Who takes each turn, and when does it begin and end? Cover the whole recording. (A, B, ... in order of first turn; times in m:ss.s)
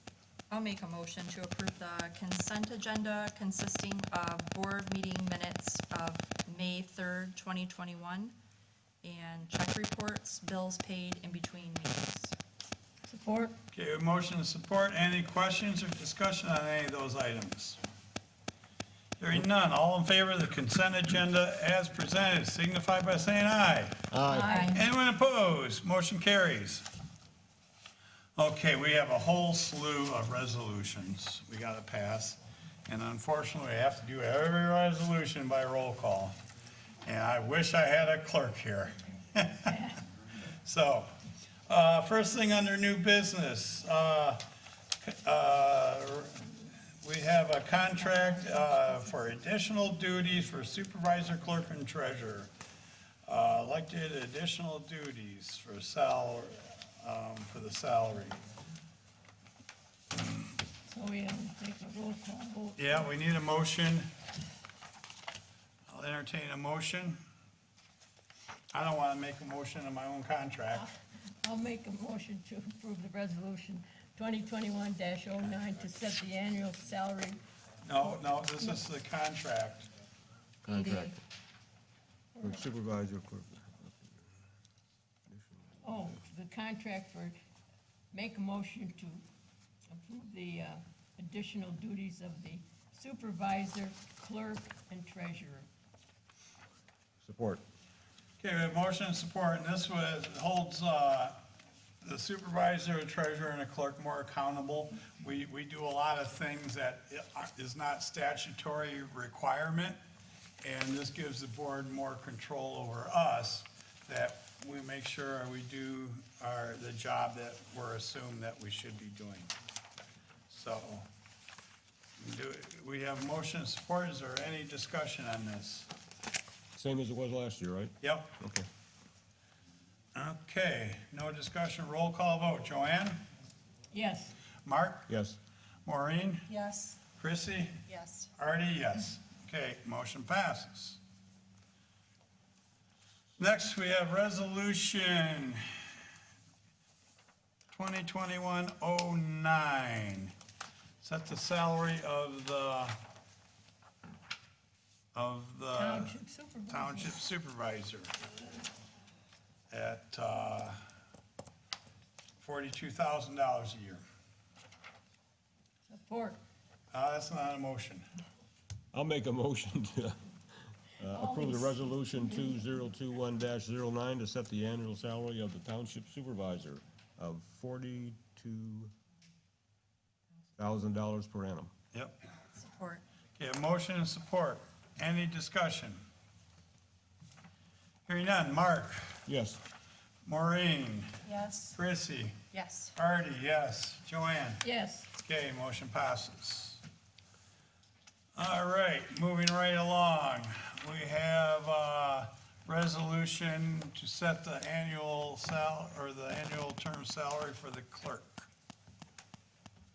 0:00.5-0:08.3 A
0:09.0-0:12.4 A
0:13.1-0:13.5 B
0:13.7-0:17.8 C
0:19.2-0:24.1 C
0:24.1-0:24.6 D
0:24.2-0:24.8 B
0:24.5-0:24.8 A
0:24.7-0:26.9 C
0:28.4-0:36.4 C
0:37.0-0:39.8 C
0:39.7-0:40.0 B
0:40.6-0:41.1 C
0:41.7-0:44.4 C
0:45.0-0:46.5 C
0:47.0-0:52.5 C
0:53.3-0:58.4 C
1:00.8-1:03.1 B
1:02.8-1:04.1 C
1:05.9-1:07.2 C
1:08.7-1:10.9 C
1:10.8-1:17.4 B
1:17.8-1:19.9 C
1:20.6-1:21.2 D
1:20.7-1:21.2 A
1:22.4-1:22.6 B
1:22.4-1:24.2 D
1:25.3-1:25.8 D
1:25.8-1:27.4 B
1:28.1-1:29.2 B
1:29.9-1:35.7 B
1:37.2-1:37.6 D
1:38.4-1:41.4 C
1:42.0-1:50.0 C
1:50.6-1:59.5 C
2:00.5-2:01.1 C
2:02.2-2:05.9 C
2:06.8-2:08.7 D
2:08.0-2:08.3 C
2:10.1-2:13.2 C
2:13.9-2:14.3 B
2:14.6-2:15.1 C
2:15.1-2:15.4 D
2:15.9-2:16.5 C
2:16.5-2:17.0 A
2:17.2-2:17.8 C
2:17.9-2:18.3 A
2:18.4-2:21.0 C
2:23.4-2:25.6 C
2:27.7-2:30.3 C
2:31.0-2:33.0 C
2:35.1-2:36.2 C
2:35.8-2:37.2 B
2:36.7-2:38.1 C
2:39.7-2:40.8 C
2:42.4-2:44.0 C
2:45.9-2:46.4 B
2:46.9-2:48.0 C
2:48.9-2:50.2 D
2:51.0-2:58.9 D
2:51.1-2:52.6 B
3:00.6-3:01.7 D
3:02.5-3:03.0 A
3:03.4-3:06.0 C
3:08.1-3:09.2 C
3:09.3-3:09.6 D
3:10.2-3:11.1 C
3:11.2-3:11.8 A
3:11.8-3:12.4 C
3:12.5-3:13.0 A
3:13.0-3:16.8 C
3:14.6-3:15.1 B
3:18.4-3:28.5 C